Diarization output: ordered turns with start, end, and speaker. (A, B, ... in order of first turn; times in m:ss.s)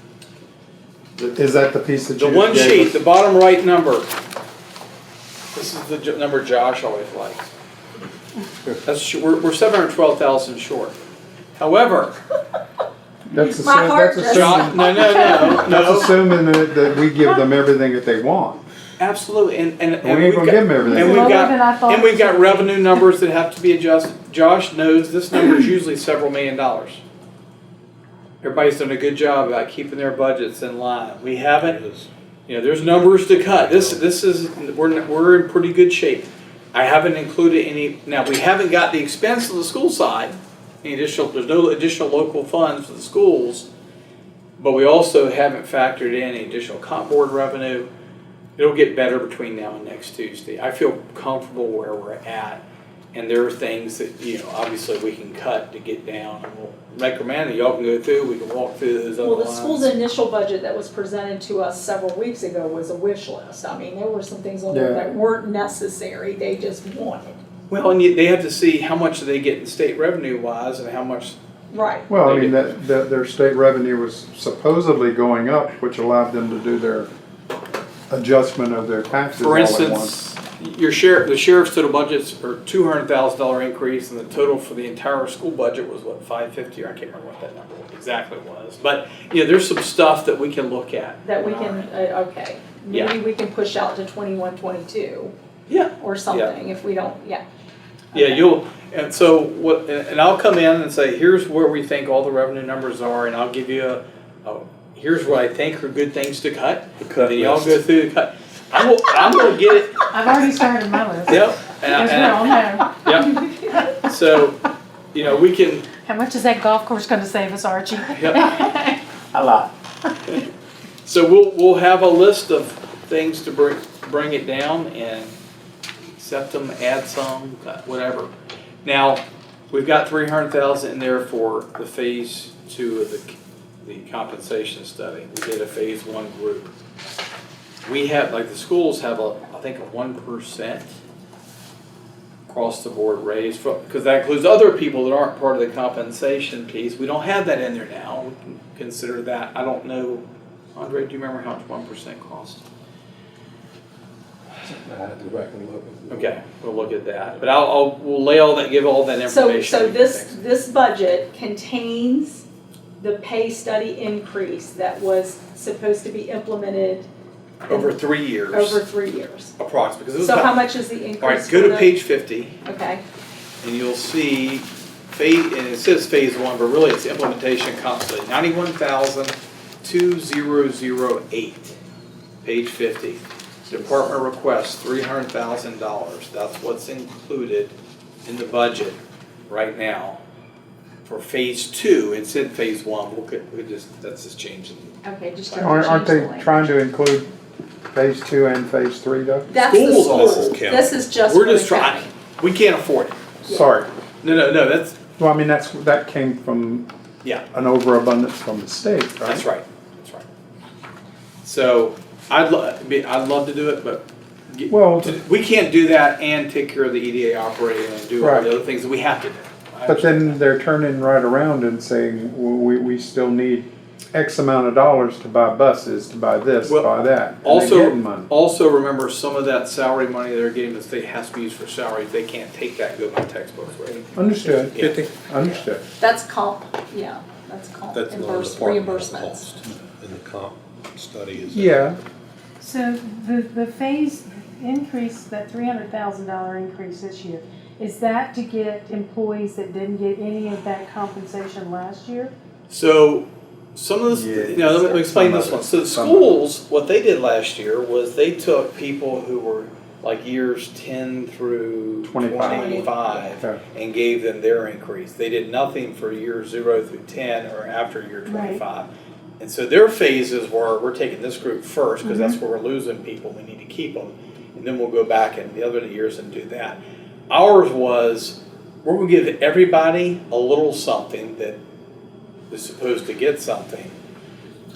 0:01.2-0:01.6 A
0:01.4-0:03.0 B
0:02.2-0:04.1 A
0:05.5-0:07.5 A
0:08.8-0:11.0 A
0:11.6-0:12.2 A
0:13.3-0:18.6 B
0:13.3-0:15.7 C
0:14.3-0:16.2 A
0:19.0-0:27.0 A
0:20.0-0:21.4 B
0:20.8-0:23.0 D
0:28.4-0:31.8 A
0:31.6-0:32.1 E
0:32.5-0:43.7 A
0:33.3-0:34.0 E
0:44.6-0:47.9 A
0:48.6-0:59.9 A
0:59.2-1:07.4 C
1:04.7-1:05.0 B
1:07.7-1:11.4 A
1:11.7-1:12.1 C
1:12.1-1:17.1 B
1:12.1-1:12.7 A
1:18.1-1:20.2 B
1:19.4-1:31.9 A
1:31.2-1:35.3 C
1:32.9-1:33.2 A
1:35.7-1:36.6 A
1:36.0-1:37.4 C
1:38.1-1:38.5 C
1:38.1-1:50.0 A
1:47.0-1:47.8 E
1:50.1-1:53.3 D
1:51.3-1:53.4 A
1:54.0-1:55.9 A
1:56.0-1:59.0 D
1:58.2-1:58.5 A
2:01.0-2:05.3 A
2:06.2-2:08.3 A
2:08.8-2:16.7 A
2:17.8-2:20.9 A
2:22.5-2:32.6 A
2:34.6-2:36.4 E
2:36.1-2:40.4 A
2:39.3-2:42.4 C
2:43.0-2:47.1 C
2:47.7-2:48.8 A
2:47.7-2:48.0 C
2:48.5-2:49.5 C
2:49.6-2:50.6 A
2:50.2-2:51.9 C
2:51.2-2:52.6 A
2:52.6-2:53.0 C
2:53.6-3:01.8 A
3:02.4-3:07.7 A
3:08.2-3:09.0 A
3:09.5-3:10.2 A
3:11.0-3:15.9 A
3:15.0-3:16.7 C
3:15.6-3:17.3 B
3:17.9-3:19.5 B
3:19.5-3:22.1 C
3:19.6-3:20.6 A
3:19.9-3:21.0 E
3:21.2-3:23.2 A
3:23.5-3:23.9 B
3:24.2-3:25.0 A
3:25.2-3:26.9 B
3:27.5-3:29.5 B
3:29.2-3:30.2 A
3:31.4-3:40.4 A
3:34.7-3:35.2 B
3:38.2-3:38.5 B
3:39.9-3:48.3 B
3:46.6-3:55.1 A
3:54.2-3:55.8 B
3:56.0-3:59.5 C
3:57.9-4:01.9 E
4:01.5-4:02.0 B
4:02.6-4:12.3 D
4:12.7-4:36.8 A
4:14.1-4:16.4 B
4:22.0-4:23.6 B
4:22.4-4:22.9 C
4:28.3-4:28.6 D
4:32.0-4:32.4 D
4:37.3-4:41.6 A
4:42.5-4:44.0 A